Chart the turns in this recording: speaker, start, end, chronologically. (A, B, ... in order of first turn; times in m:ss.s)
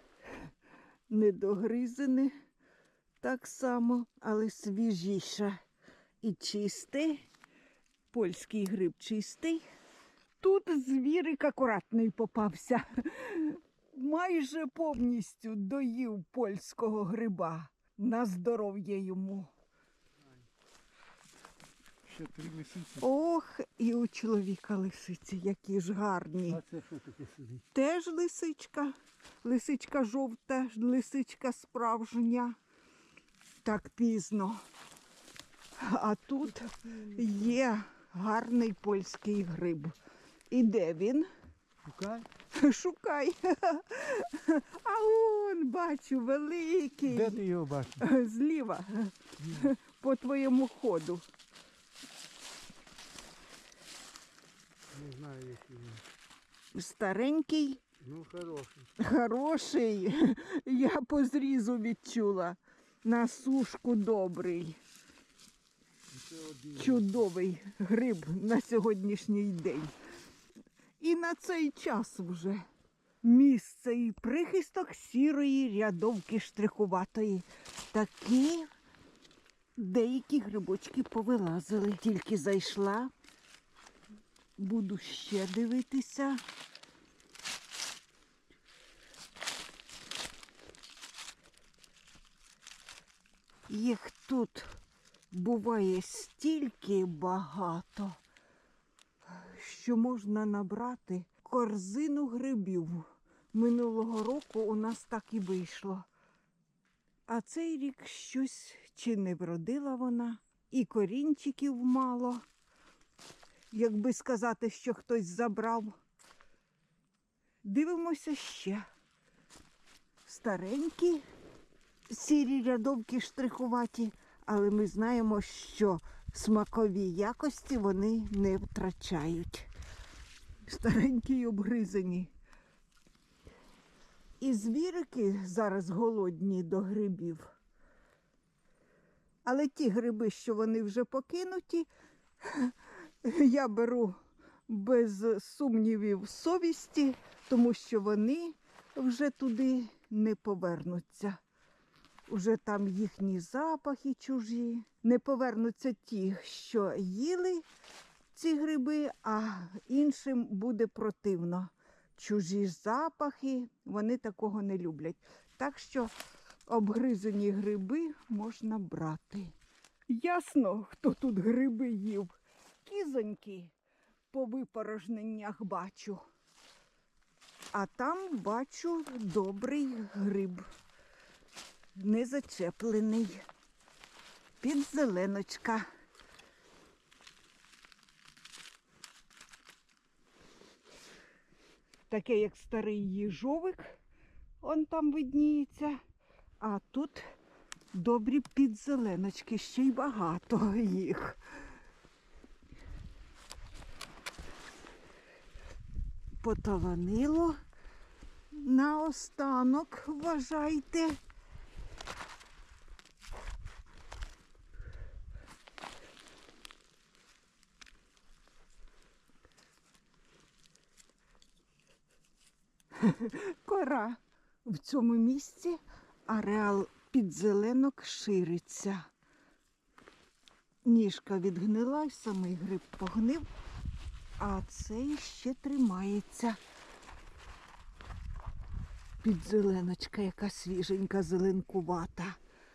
0:01.1-0:02.3 A
0:03.2-0:05.6 A
0:06.2-0:07.3 A
0:08.1-0:09.6 A
0:10.4-0:19.5 A
0:22.1-0:23.1 B
0:23.0-0:26.6 A
0:26.5-0:27.6 B
0:27.7-0:32.6 A
0:33.6-0:34.6 A
0:35.8-0:40.0 A
0:40.5-0:41.3 A
0:41.8-0:42.3 B
0:42.5-0:47.4 A
0:47.1-0:48.0 B
0:48.0-0:51.2 A
0:54.9-0:56.0 B
0:56.8-0:57.8 A
0:58.0-0:58.9 B
0:59.0-1:04.8 A
1:06.1-1:07.0 B
1:06.7-1:09.9 A
1:11.0-1:12.6 A
1:13.2-1:18.7 A
1:19.8-1:23.1 A
1:24.6-1:26.4 A
1:33.7-1:34.7 A
1:35.3-1:38.2 A
1:39.3-1:46.1 A
1:47.3-1:52.4 A
1:53.7-1:56.0 A
1:57.6-1:58.9 A
2:00.2-2:01.2 A
2:02.1-2:09.7 A
2:10.7-2:12.3 A
2:14.4-2:17.5 A
2:19.4-2:21.9 A
2:22.4-2:24.2 A
2:24.7-2:31.4 A
2:32.3-2:37.6 A
2:38.3-2:46.1 A
2:46.7-2:49.5 A
2:50.1-2:52.3 A
2:52.8-2:53.7 A
2:54.3-2:56.2 A
2:57.7-3:00.7 A
3:02.0-3:03.4 A
3:04.6-3:05.9 A
3:12.1-3:14.0 A
3:14.6-3:16.0 A
3:16.6-3:17.3 A
3:17.9-3:21.4 A
3:26.4-3:27.6 A
3:28.5-3:31.2 A
3:43.0-3:49.1 A
3:50.8-3:53.5 A
3:54.4-3:56.6 A
3:59.2-4:02.4 A